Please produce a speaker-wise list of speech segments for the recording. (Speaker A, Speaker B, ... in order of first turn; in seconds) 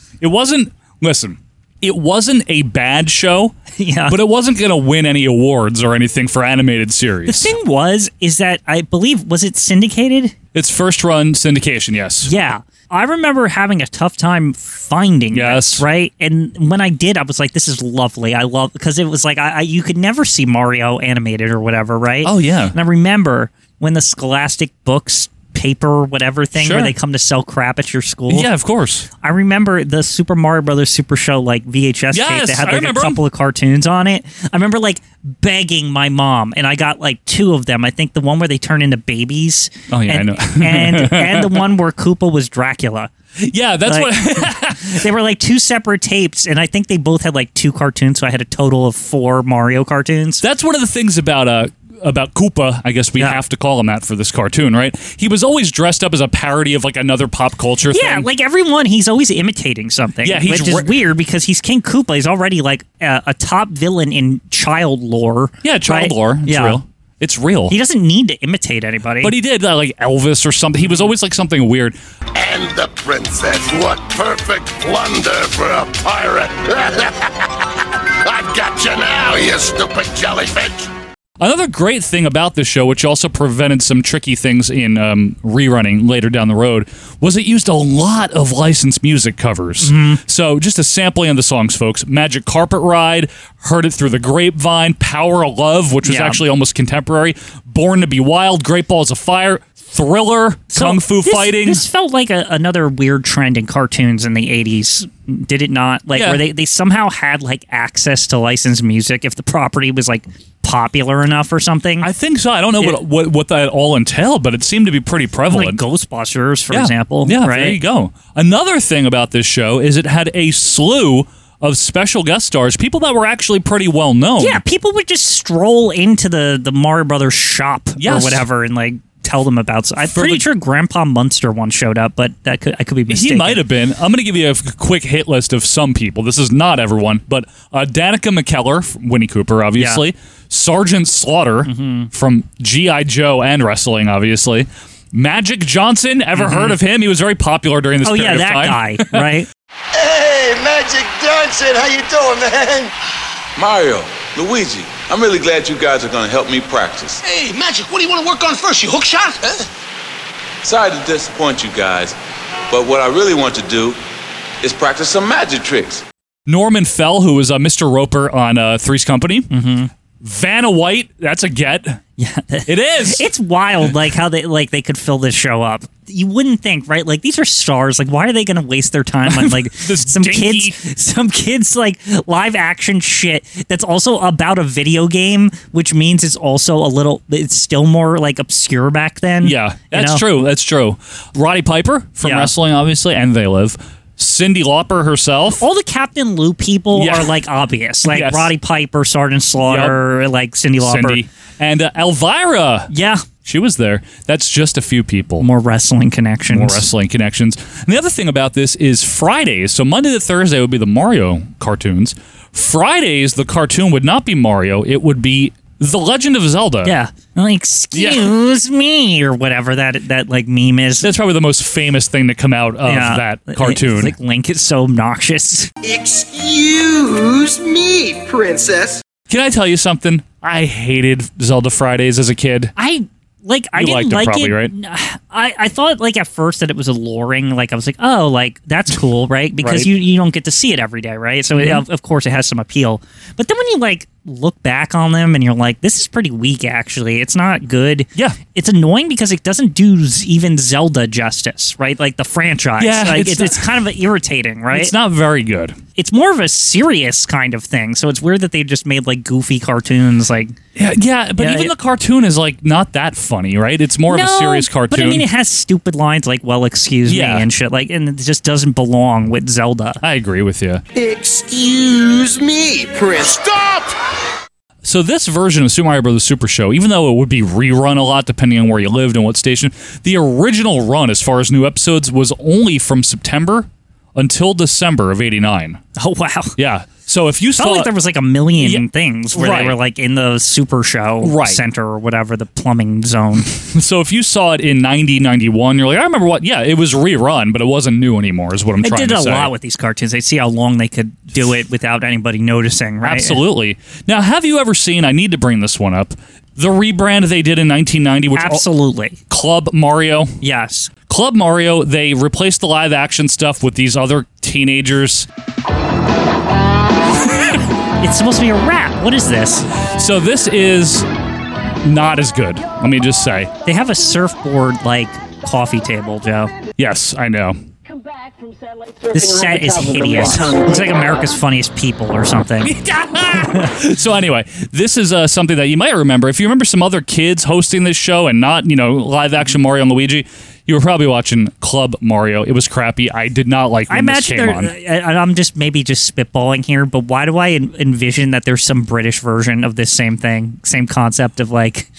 Speaker A: 0.2-3.5, 4.1-7.5, 10.5-12.3, 15.3-15.8, 22.2-22.7, 26.6-26.9, 28.3-29.1, 32.1-33.2, 39.9-41.7, 43.4-45.0, 50.4-58.3, 60.2-60.9, 65.6-67.8, 69.2-72.0, 81.4-101.8, 106.1-106.4, 112.0-115.8, 116.7-124.6, 128.0-128.4, 130.0-130.4, 133.1-149.2, 166.5-169.5, 170.2-172.0, 172.7-173.3, 179.3-180.8, 189.4-195.6, 196.9-197.3, 198.1-198.5, 199.6-200.0, 200.8-202.9, 203.4-205.4, 206.5-216.9, 217.9-218.3, 221.0-224.1, 229.3-232.7, 233.7-234.7, 239.6-239.9, 241.6-241.8, 252.8-253.7, 254.7-255.8, 260.7-265.2, 267.0-267.5, 270.0-270.8, 274.8-285.8, 286.6-287.9, 288.6-289.8, 291.2-291.6, 293.5-299.5, 303.0-308.6, 309.3-310.3, 311.1-315.3, 319.9-321.1, 321.8-323.5, 326.8-327.6, 332.6-344.7
Speaker B: 3.8-4.2, 7.3-10.3, 12.2-28.5, 29.2-43.1, 43.9-50.4, 57.9-66.8, 67.7-69.3, 70.8-71.1, 89.8-90.2, 96.0-96.4, 100.7-112.1, 115.5-117.8, 124.4-133.6, 139.8-140.0, 141.6-142.1, 146.3-146.8, 148.0-149.5, 169.5-169.9, 172.2-190.2, 192.2-192.5, 195.6-201.2, 202.9-203.2, 205.4-206.8, 216.8-221.1, 222.8-225.7, 232.8-254.9, 255.9-260.6, 261.4-261.7, 264.1-270.0, 286.0-286.5, 287.6-293.5, 298.8-303.4, 308.3-309.2, 310.4-310.9, 318.0-319.7, 323.6-326.5, 329.1-332.8, 333.3-333.7, 343.9-351.9
Speaker C: 72.3-77.7, 78.2-80.8
Speaker D: 149.9-152.9
Speaker E: 153.6-157.2, 160.6-162.1, 162.7-164.0, 164.6-166.0
Speaker F: 157.2-159.6
Speaker G: 225.8-229.0